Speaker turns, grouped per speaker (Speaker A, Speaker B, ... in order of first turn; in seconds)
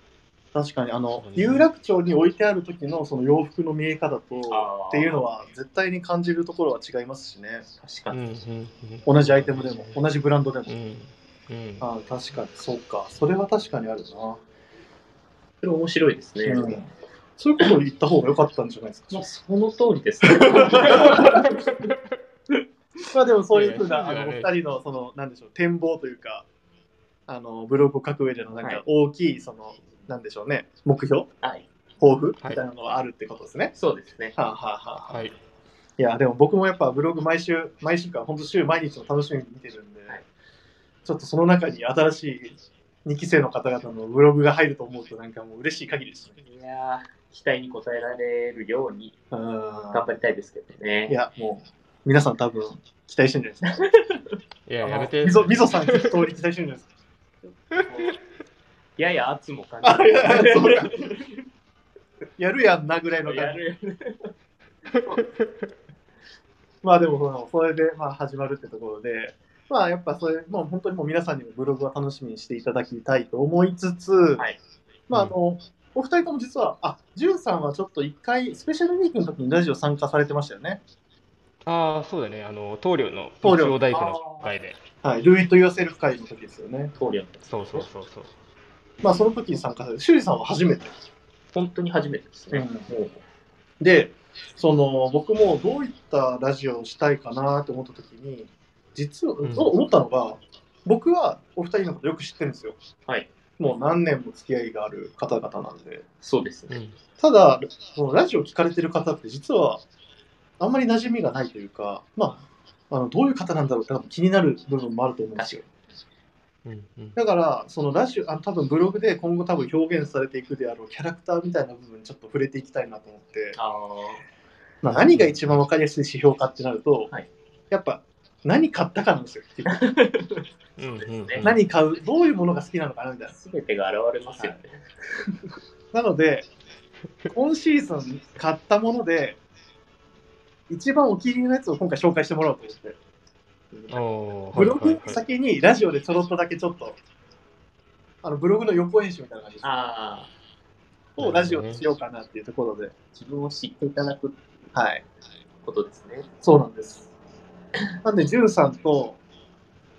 Speaker A: 0.5-7.7, 9.0-10.7, 11.8-14.4, 16.4-19.2, 20.4-21.4, 23.1-26.4, 27.3-31.3, 32.0-33.7, 34.4-35.2, 36.0-40.2, 41.0-46.3, 49.3-50.0, 51.1-53.7, 54.8-56.9, 59.8-61.1, 62.4-63.6, 66.8-74.5, 75.1-80.8, 83.4-83.8, 85.0-86.9, 89.0-90.9, 92.5-92.9, 93.8-102.8, 103.6-106.0, 107.2-109.8, 110.6-115.6, 117.2-123.6, 124.8-127.1, 127.7-129.8, 131.4-133.3, 135.9-136.5, 137.3-139.4, 140.7-143.0, 144.5-147.0, 148.2-149.7, 151.2-152.9, 154.7-155.0, 156.4-157.1, 158.0-159.2
Speaker B: 1.1-1.7, 8.1-10.0, 10.7-11.8, 23.5-24.5, 35.1-35.3, 54.6-56.2, 81.6-84.8, 87.5-88.3, 99.4-99.7, 106.7-107.0, 116.6-117.2, 124.9-125.6, 130.8-131.6, 143.9-145.2, 151.2-151.8
Speaker C: 4.5-5.2, 7.8-8.2, 15.6-16.8, 19.1-21.7, 31.4-31.7, 33.7-34.3, 46.4-49.1, 49.9-51.2, 53.8-54.2, 57.4-58.2, 59.0-61.3, 63.2-64.3, 83.9-84.5, 86.9-87.9, 91.5-93.2, 106.2-106.8, 115.3-115.6, 123.5-124.2, 129.7-131.5, 133.3-135.4, 143.7-144.0, 149.6-150.3, 153.1-154.4, 155.6-156.3